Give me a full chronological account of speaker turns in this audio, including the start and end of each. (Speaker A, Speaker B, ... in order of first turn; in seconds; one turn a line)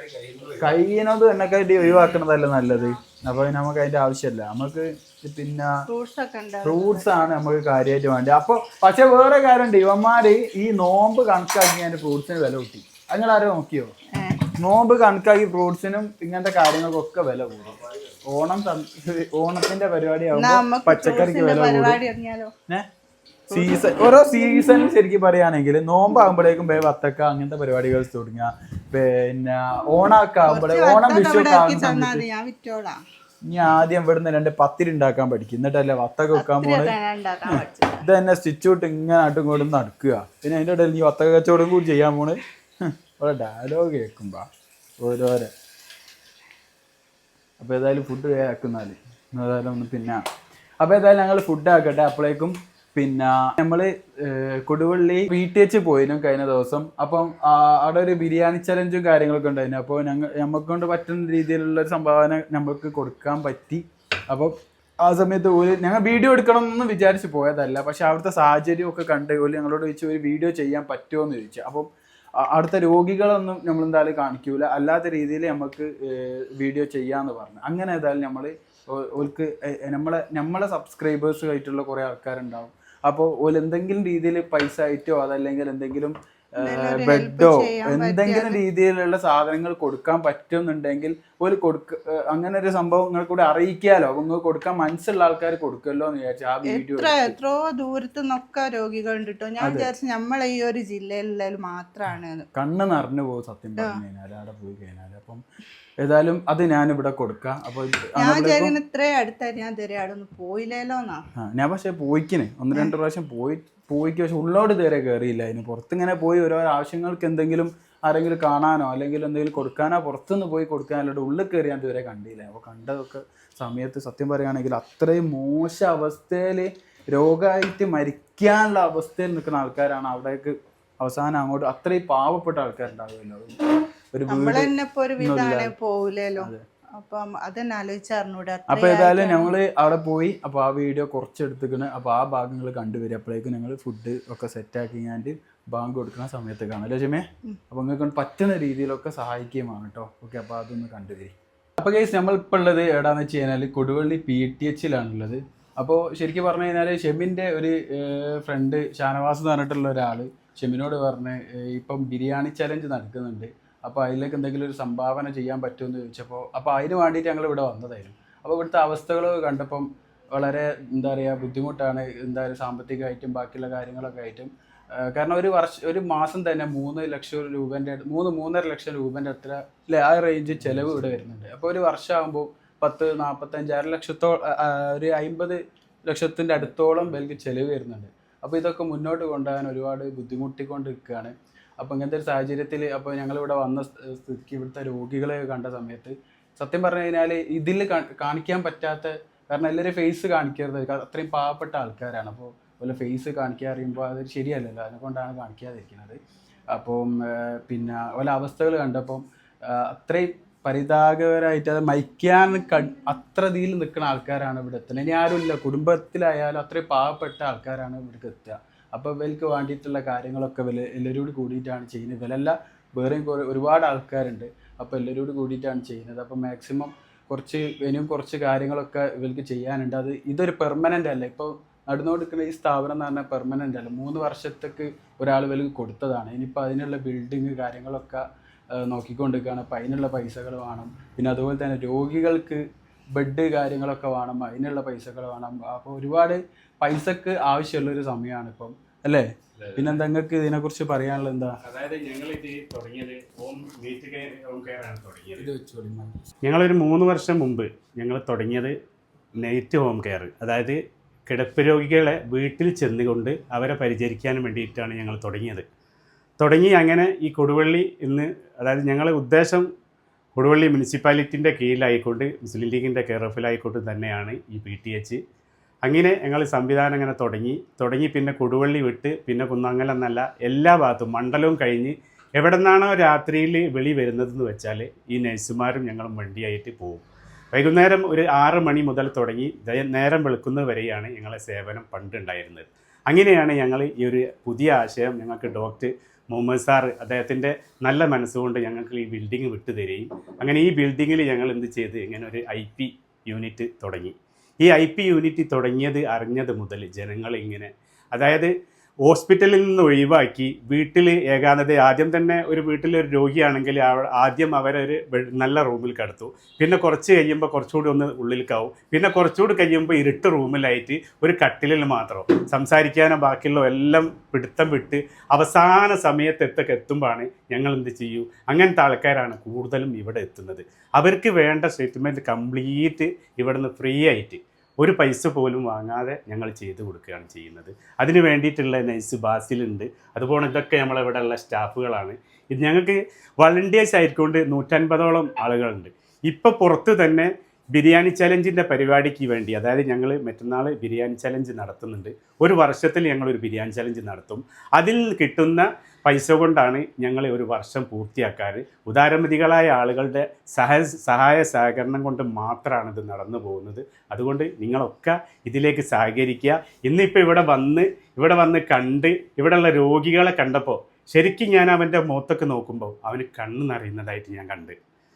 Speaker A: 0.4-5.7
Speaker B: 5.9-7.1
Speaker A: 6.6-13.9
Speaker B: 14.1-14.4
Speaker A: 14.6-22.0
Speaker B: 20.3-22.5
Speaker B: 23.5-24.2
Speaker A: 23.5-32.2
Speaker B: 30.4-33.0
Speaker A: 33.5-36.9
Speaker B: 36.3-38.0
Speaker A: 37.5-42.4
Speaker A: 43.1-44.5
Speaker A: 45.0-45.5
Speaker A: 47.6-50.2
Speaker A: 50.8-71.9
Speaker A: 72.4-97.3
Speaker B: 86.6-88.6
Speaker B: 96.7-102.4
Speaker A: 99.6-99.9
Speaker A: 102.5-105.4
Speaker A: 106.0-108.7
Speaker B: 108.2-111.2
Speaker A: 111.4-133.6
Speaker A: 134.1-135.7
Speaker B: 134.3-139.5
Speaker A: 138.7-206.2
Speaker A: 206.7-242.6
Speaker A: 243.1-251.6
Speaker C: 249.6-250.0
Speaker C: 251.6-255.5
Speaker A: 255.4-256.2
Speaker C: 256.4-258.7
Speaker C: 259.4-265.6
Speaker C: 266.4-269.6
Speaker C: 270.4-275.2
Speaker C: 275.8-308.5
Speaker C: 309.0-374.8